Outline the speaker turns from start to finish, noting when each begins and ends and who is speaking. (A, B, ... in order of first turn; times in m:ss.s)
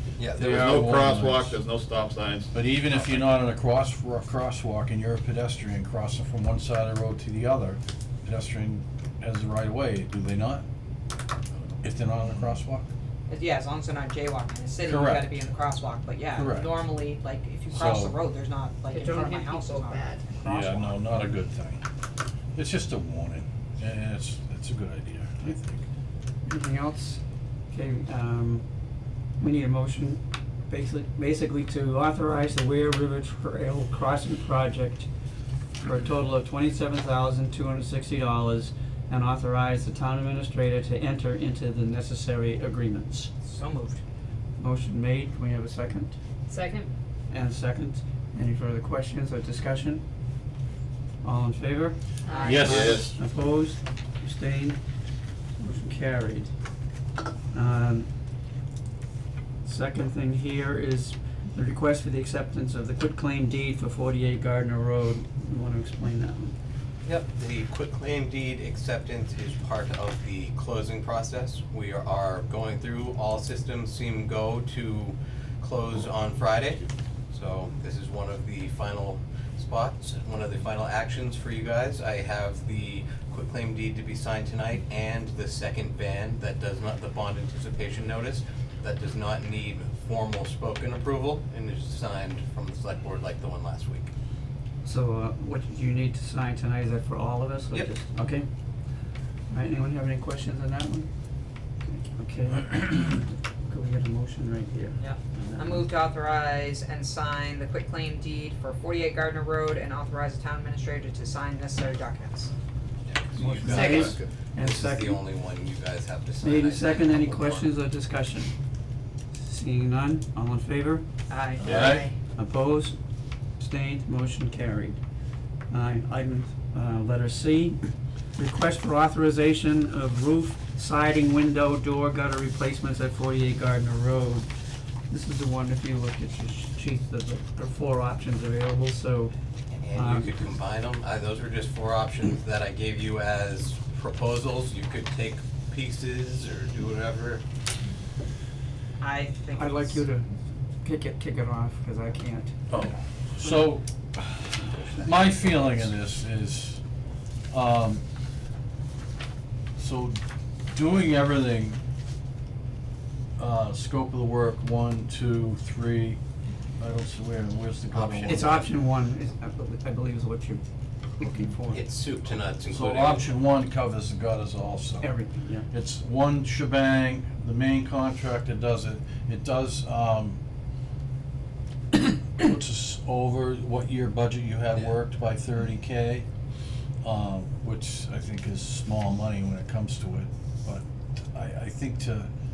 0:00.4-0:01.6 A
0:00.4-0:02.5 B
0:02.5-0:10.6 A
0:11.8-0:12.9 A
0:13.3-0:21.0 C
0:14.8-0:15.3 A
0:16.4-0:16.8 A
0:17.7-0:18.2 A
0:18.9-0:20.2 D
0:20.4-0:21.8 A
0:22.6-0:25.8 A
0:26.5-0:27.2 E
0:27.7-0:28.7 E
0:29.4-0:35.1 E
0:35.8-0:43.3 E
0:43.4-0:44.0 C
0:44.6-0:46.2 E
0:46.5-0:46.9 D
0:47.3-0:50.0 E
0:51.2-0:52.0 E
0:52.3-0:53.0 C
0:52.3-0:52.6 D
0:52.4-0:53.2 A
0:52.5-0:54.8 E
0:52.6-0:53.1 B
0:55.6-0:56.5 E
0:57.5-0:58.1 E
0:59.6-1:06.6 E
1:07.1-1:34.1 F
1:34.8-1:38.5 E
1:39.5-1:41.1 E
1:41.8-1:45.9 E
1:45.0-1:52.5 C
1:53.1-1:57.6 F
1:53.1-1:54.6 C
1:53.4-1:55.2 E
1:56.4-1:58.5 E
1:56.5-1:57.2 C
1:59.4-2:01.0 E
2:01.3-2:02.2 C
2:01.6-2:02.1 A
2:02.4-2:03.0 E
2:03.6-2:05.0 E
2:05.7-2:07.8 E
2:08.4-2:14.5 E
2:15.1-2:19.3 E
2:19.8-2:27.4 F
2:19.9-2:20.4 E
2:29.0-2:30.0 C
2:29.6-2:30.3 E
2:30.8-2:32.6 E
2:32.7-2:36.8 A
2:34.7-2:35.5 E
2:37.5-2:38.0 A
2:39.8-2:40.2 A
2:40.7-2:41.8 A
2:43.4-2:46.2 A
2:46.8-2:48.6 A
2:47.9-2:48.6 F
2:48.3-2:50.6 E
2:48.4-2:48.6 C
2:51.2-2:51.8 E
2:51.7-2:52.9 C
2:51.8-2:53.3 F
2:52.7-2:55.2 A
2:55.0-2:55.7 E
2:55.7-3:00.4 A
3:02.4-3:06.3 A
3:07.0-3:12.3 A